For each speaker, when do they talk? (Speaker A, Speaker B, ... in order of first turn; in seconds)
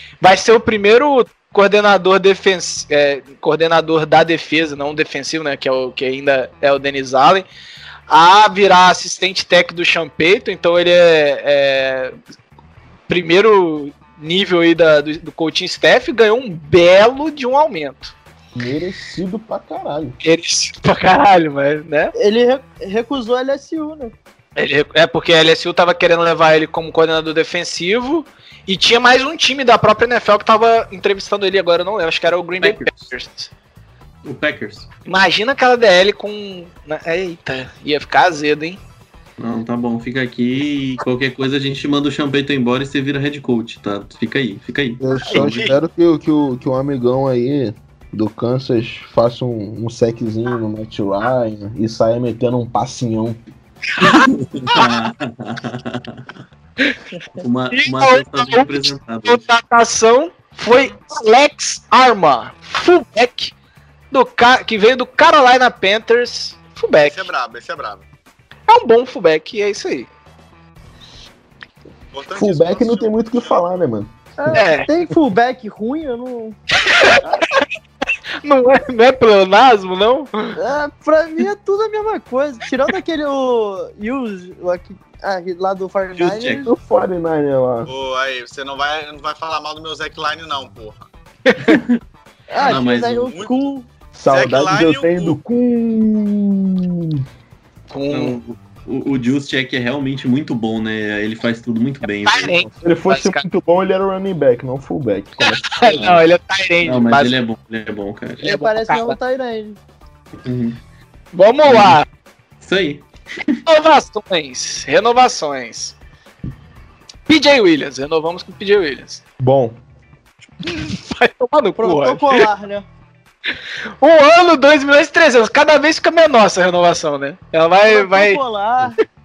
Speaker A: 0.2-7.5, 8.1-12.2, 13.1-18.1, 20.2-22.1, 24.6-33.5, 35.0-38.8, 45.2-45.7, 54.0-54.9, 57.7-63.5, 64.1-67.3, 68.7-70.1, 74.5-74.9, 76.7-77.7, 78.4-80.5, 91.5-91.8, 97.9-98.4, 102.0-103.4, 105.4-107.3, 108.4-109.2, 111.3-112.0, 113.7-115.9, 117.3-119.2, 120.6-122.5, 124.0-128.4
Speaker B: 18.5-20.2, 45.0-53.4, 72.3-74.1, 86.6-87.9, 94.1-97.2, 102.8-106.1, 119.4-119.8
Speaker C: 22.1-24.1, 74.4-76.6, 80.6-86.7, 92.5-93.9, 108.4-109.8, 121.8-122.8, 127.8-129.0
Speaker D: 32.6-33.1, 34.2-34.9, 39.4-45.6, 54.0-56.2, 57.4-59.4, 86.2-86.6, 91.6-92.0, 92.6-93.3, 98.1-102.7, 105.8-106.2, 106.8-108.5, 110.4-110.8, 111.6-112.0, 112.6-113.6
Speaker E: 67.0-68.0, 72.1-73.6, 87.8-91.1, 93.3-93.7, 94.3-95.4